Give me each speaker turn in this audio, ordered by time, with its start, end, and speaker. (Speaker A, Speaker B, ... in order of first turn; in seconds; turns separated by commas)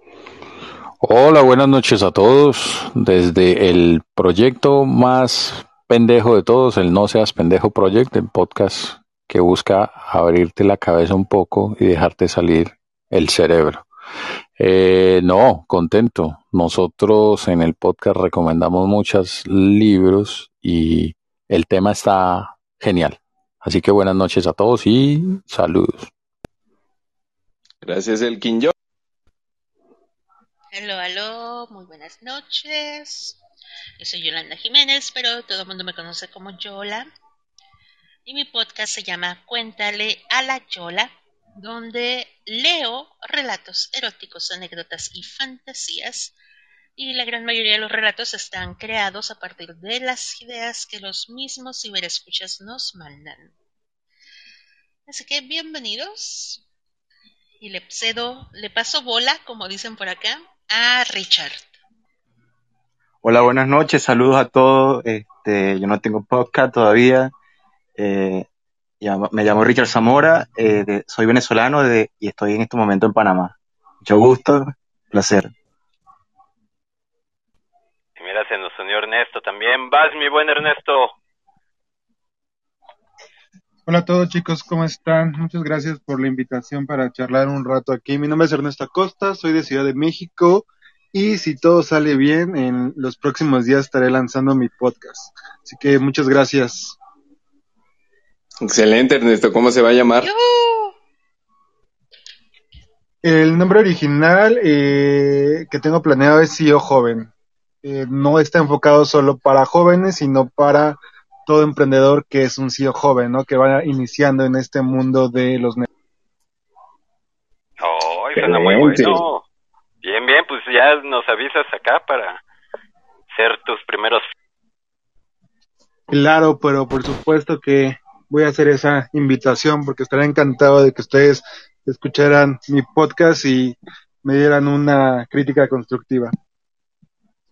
Speaker A: 1.0-13.8, Speaker A: 14.6-26.1, Speaker B: 27.8-28.7, Speaker C: 30.7-33.4, Speaker C: 34.0-37.1, Speaker C: 38.2-46.3, Speaker C: 47.0-53.5, Speaker C: 55.1-56.6, Speaker C: 57.6-61.8, Speaker D: 63.2-67.3, Speaker D: 68.0-68.5, Speaker D: 69.0-75.5, Speaker E: 78.2-81.1, Speaker F: 83.9-97.0, Speaker B: 98.6-100.3, Speaker C: 100.2-100.9, Speaker F: 103.2-107.3, Speaker F: 107.8-115.8, Speaker E: 117.8-119.4, Speaker E: 120.0-122.4, Speaker E: 123.3-124.2, Speaker F: 126.1-136.3